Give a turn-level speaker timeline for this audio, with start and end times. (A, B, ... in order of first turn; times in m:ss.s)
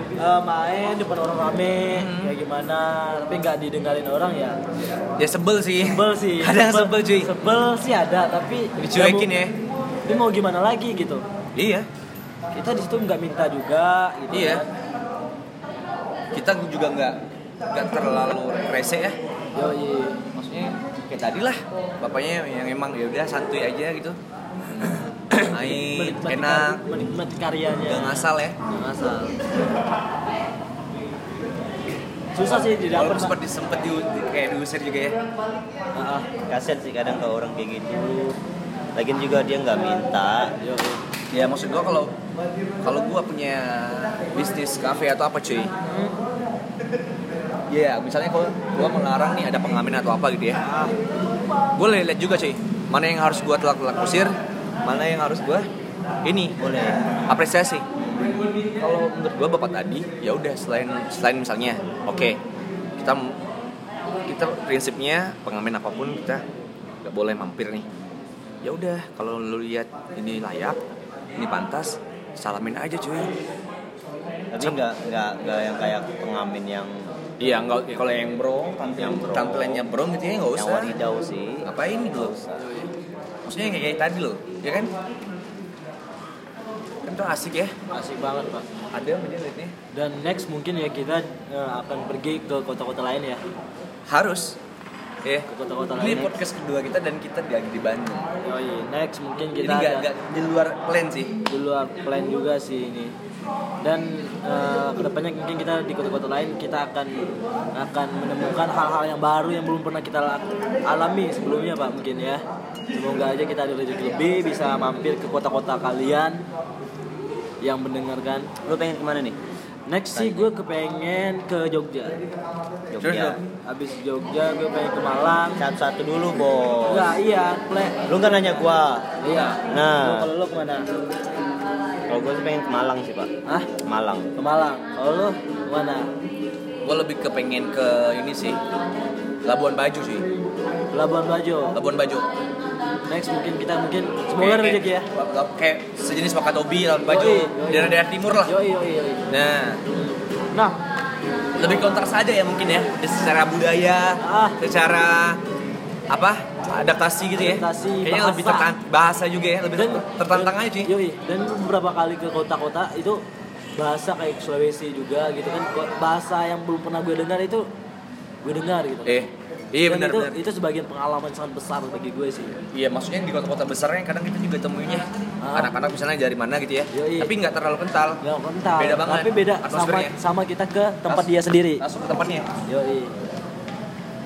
0:00.2-0:04.6 A
0:01.9-0:02.3 B
0:05.2-0:07.3 B
0:05.8-0:09.3 A
0:08.8-0:09.5 B
0:10.0-0:11.2 A
0:11.5-0:11.9 B
0:12.5-0:14.7 A
0:14.3-0:14.6 B
0:16.3-0:19.2 B
0:19.5-0:20.2 A
0:20.4-0:24.2 B
0:24.7-0:26.8 B
0:25.4-0:29.4 A
0:27.8-0:28.6 B
0:32.4-0:33.4 A
0:32.4-0:35.2 B
0:35.9-0:36.3 A
0:36.5-0:38.1 C
0:37.9-0:38.4 A
0:38.9-0:40.5 C
0:40.6-0:41.0 A
0:41.3-0:42.1 B
0:42.8-0:45.7 B
0:45.8-0:46.1 A
0:47.7-0:50.6 B
0:50.6-0:50.9 A
0:51.8-0:54.3 B
0:54.8-0:55.7 B
0:56.2-0:56.6 B
0:56.6-0:57.2 C
0:57.3-1:02.4 B
1:03.0-1:03.4 B
1:04.3-1:06.4 B
1:07.0-1:07.9 B
1:08.6-1:10.8 B
1:11.4-1:13.3 B
1:14.5-1:17.2 C
1:17.4-1:20.9 B
1:18.9-1:19.9 C
1:20.6-1:22.6 C
1:21.6-1:22.4 B
1:22.6-1:22.9 A
1:23.4-1:24.9 B
1:27.0-1:27.7 B
1:27.9-1:28.7 A
1:28.9-1:29.7 B
1:29.9-1:33.4 A
1:34.1-1:34.6 B
1:35.5-1:36.4 A
1:36.0-1:38.3 B
1:38.4-1:40.1 A
1:39.6-1:41.3 B
1:41.5-1:43.1 A
1:43.8-1:52.4 A
1:52.9-1:56.4 A
1:57.6-1:58.5 A
1:58.6-1:59.4 C
1:59.9-2:02.2 A
2:00.1-2:00.5 C
2:02.9-2:03.4 C
2:03.0-2:03.4 B
2:03.6-2:05.6 A
2:05.6-2:07.1 C
2:06.9-2:10.9 A
2:08.1-2:10.3 C
2:12.1-2:14.3 C
2:14.4-2:16.1 A
2:16.8-2:18.6 B
2:19.4-2:20.2 B
2:20.9-2:21.8 A
2:21.7-2:22.3 B
2:23.0-2:25.1 A
2:24.4-2:28.6 B
2:27.0-2:29.2 A
2:29.3-2:29.8 B
2:29.9-2:30.8 A
2:31.6-2:35.4 B
2:34.2-2:34.6 A
2:36.1-2:40.9 B
2:37.4-2:38.7 A
2:39.8-2:43.2 A
2:43.8-2:47.6 A
2:48.4-2:49.3 A
2:49.0-2:50.4 B
2:49.8-2:52.6 A
2:52.7-2:58.2 B
2:55.4-2:55.7 A
2:56.9-2:57.3 A
2:58.2-3:01.8 A
2:58.8-3:00.1 B
3:01.1-3:02.5 B
3:02.7-3:03.1 A